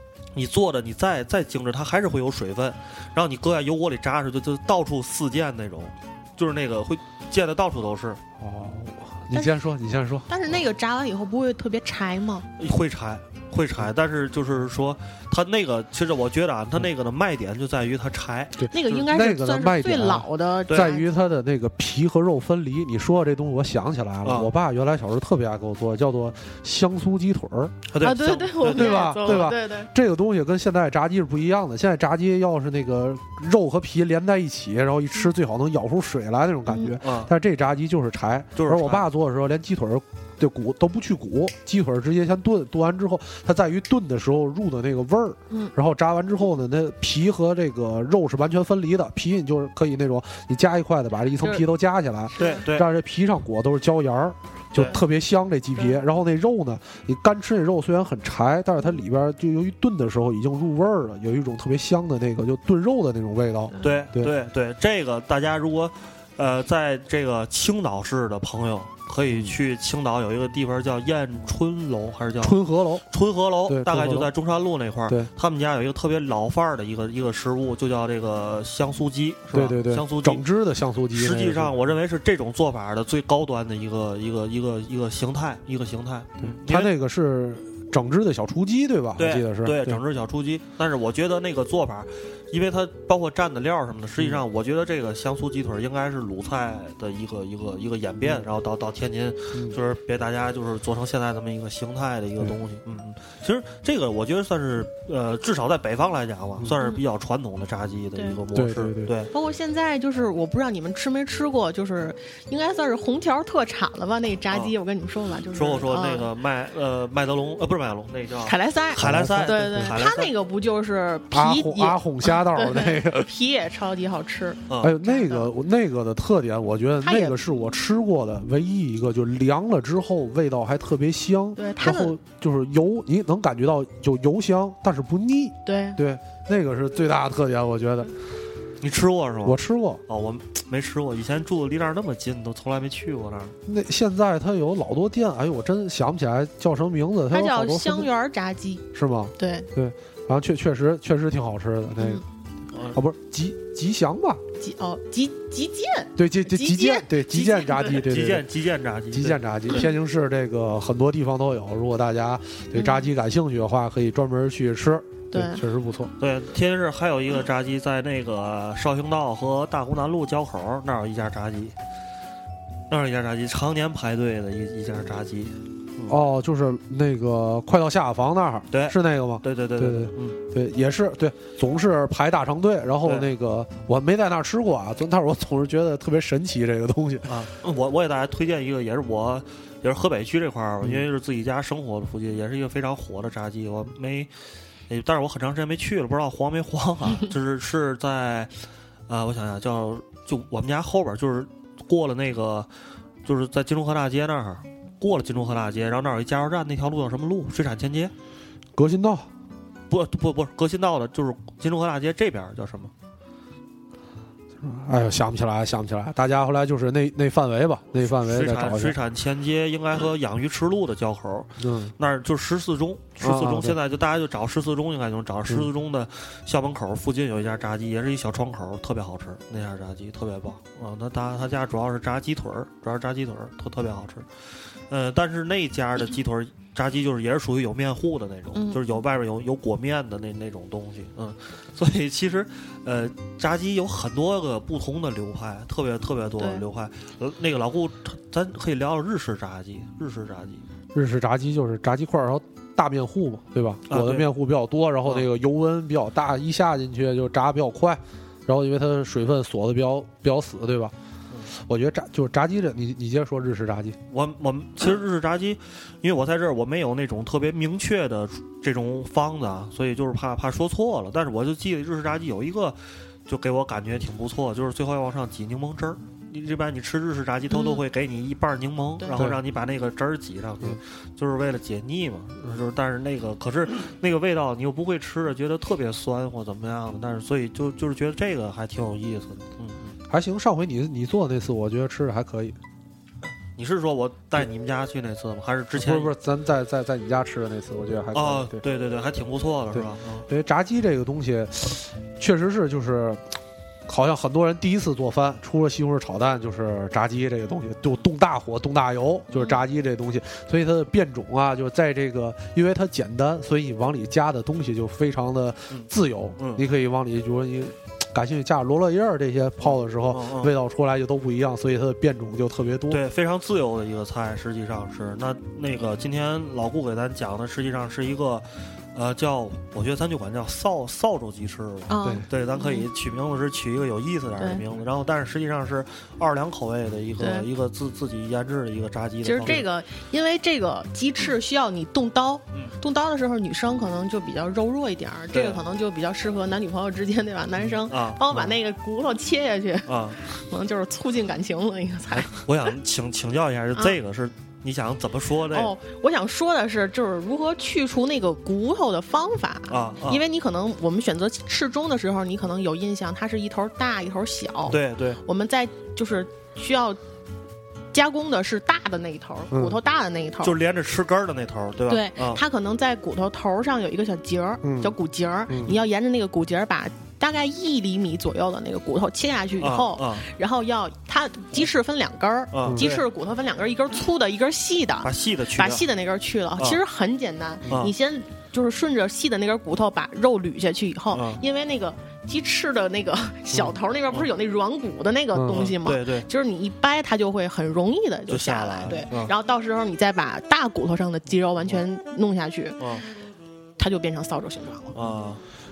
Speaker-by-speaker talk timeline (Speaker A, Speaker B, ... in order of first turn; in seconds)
Speaker A: 0.3-8.2, 12.6-19.0, 24.2-24.5, 27.9-29.5, 37.0-37.3, 38.5-39.0, 52.4-52.9, 54.7-55.0, 63.8-80.4, 81.1-86.9, 89.2-109.3, 115.5-120.3, 124.7-124.9, 138.8-143.6, 152.7-153.0, 157.9-159.8, 166.2-171.7, 172.9-176.2, 178.7-180.4, 183.0-183.3, 187.2-194.3, 194.9-202.7, 203.2-208.1, 209.9-212.9, 218.0-250.6, 253.9-254.3, 264.1-289.9, 293.6-296.1, 298.1-300.2, 315.7-316.6, 319.6-320.5, 322.9-339.6, 345.3-345.6, 347.6-348.6, 349.9-350.2, 352.1-355.7, 359.7-360.2, 364.7-365.2, 370.4-372.4, 379.6-380.2, 382.5-383.0, 385.0-385.8, 387.7-387.9, 391.1-391.4, 395.5-396.3, 398.3-399.3, 402.8-403.0, 404.9-405.4
Speaker B: 8.4-10.2, 18.6-27.9, 28.7-64.3, 69.3-69.6, 72.4-73.0, 73.7-74.3, 79.5-81.7, 86.4-90.0, 94.2-94.4, 108.5-109.1, 119.0-119.9, 121.3-123.3, 124.8-138.1, 139.4-140.0, 143.7-148.1, 148.9-152.2, 152.9-154.4, 156.2-158.4, 159.1-166.1, 176.1-187.4, 208.8-209.3, 214.6-219.0, 221.6-221.9, 223.2-223.8, 250.9-260.9, 261.5-264.0, 279.1-279.4, 290.1-292.6, 295.8-298.6, 299.7-323.0, 369.5-369.8, 374.6-374.9, 395.3-395.7
Speaker C: 9.3-9.6, 10.3-12.5, 18.7-21.1, 28.0-29.9, 36.7-37.0, 51.4-51.6, 52.4-52.6, 55.8-56.0, 63.7-64.0, 109.3-116.3, 118.5-125.5, 127.0-127.4, 131.6-132.1, 135.6-136.0, 147.3-148.8, 149.4-149.7, 152.0-152.2, 154.6-158.1, 162.7-163.1, 165.3-165.6, 238.5-238.8, 246.4-246.6, 277.5-277.8, 279.0-279.2, 309.3-309.6, 331.9-332.9, 337.2-337.5, 339.2-352.7, 355.5-367.0, 367.9-370.6, 371.9-402.8, 403.8-404.9